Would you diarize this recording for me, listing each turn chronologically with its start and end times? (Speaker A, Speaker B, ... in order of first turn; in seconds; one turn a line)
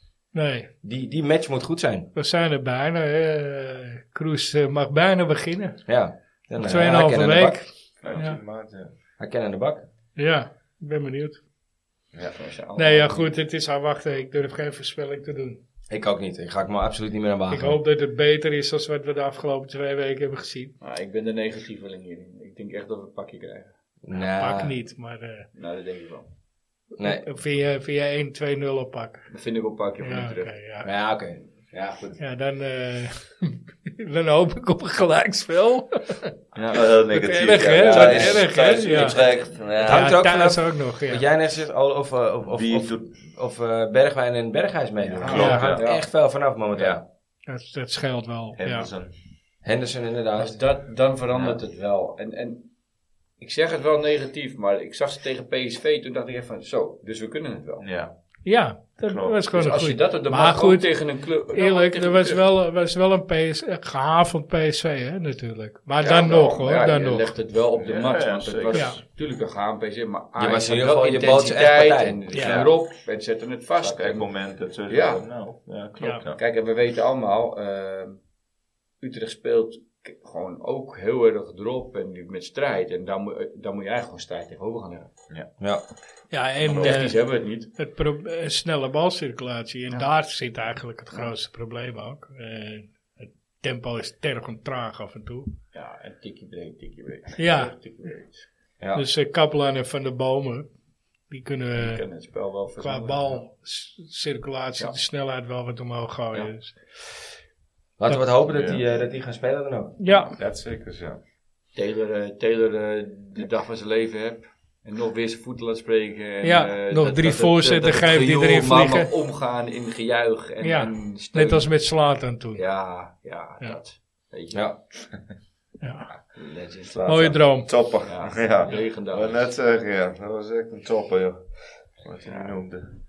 Speaker A: 0.3-0.7
Speaker B: 0.8-2.1
Speaker A: 2.1-5.8
Speaker B: 5.8-7.6
Speaker A: 6.6-8.4
Speaker C: 8.0-8.9
Speaker B: 9.2-9.8
Speaker A: 10.2-11.4
Speaker D: 12.3-13.3
Speaker A: 12.8-15.6
Speaker B: 15.9-17.8
Speaker A: 17.5-20.7
Speaker D: 20.8-23.7
Speaker B: 24.0-24.8
Speaker A: 24.4-25.5
Speaker D: 25.5-26.3
Speaker B: 27.0-27.2
Speaker A: 27.0-29.3
Speaker D: 29.3-30.5
Speaker A: 30.0-30.9
Speaker B: 30.8-32.2
Speaker A: 32.2-36.3
Speaker D: 36.5-36.8
Speaker C: 36.7-40.1
Speaker A: 37.1-39.2
Speaker B: 37.9-38.4
Speaker D: 37.9-38.2
Speaker B: 39.2-47.0
Speaker A: 39.8-41.2
Speaker C: 42.5-43.1
Speaker D: 45.0-46.0
Speaker C: 45.3-45.8
Speaker A: 45.3-45.6
Speaker A: 47.5-48.9
Speaker C: 48.6-49.1
Speaker B: 49.6-50.6
Speaker D: 50.4-52.7
Speaker C: 51.3-51.6
Speaker D: 53.4-57.9
Speaker C: 57.8-58.1
Speaker A: 58.4-61.0
Speaker C: 59.0-59.7
Speaker D: 59.5-62.4
Speaker A: 61.5-67.3
Speaker D: 66.0-74.3
Speaker C: 67.8-69.0
Speaker A: 68.7-69.0
Speaker B: 70.4-72.6
Speaker A: 72.3-72.6
Speaker C: 73.8-76.4
Speaker D: 74.9-75.2
Speaker D: 76.3-78.2
Speaker D: 79.0-85.1
Speaker A: 86.3-87.2
Speaker D: 86.7-87.7
Speaker C: 86.7-87.0
Speaker A: 87.8-95.5
Speaker D: 95.7-98.5
Speaker A: 97.4-97.7
Speaker B: 98.8-99.0
Speaker A: 98.9-100.7
Speaker A: 101.3-102.0
Speaker D: 101.8-103.4
Speaker A: 102.8-107.0
Speaker B: 108.0-110.0
Speaker C: 108.5-108.8
Speaker A: 110.0-110.3
Speaker C: 110.3-111.2
Speaker D: 111.7-121.7
Speaker A: 116.4-119.1
Speaker A: 120.6-122.6
Speaker D: 122.5-124.7
Speaker B: 124.5-124.8
Speaker A: 125.8-126.1
Speaker D: 126.1-127.3
Speaker C: 126.9-132.9
Speaker A: 127.1-127.7
Speaker D: 128.0-129.4
Speaker D: 132.2-132.6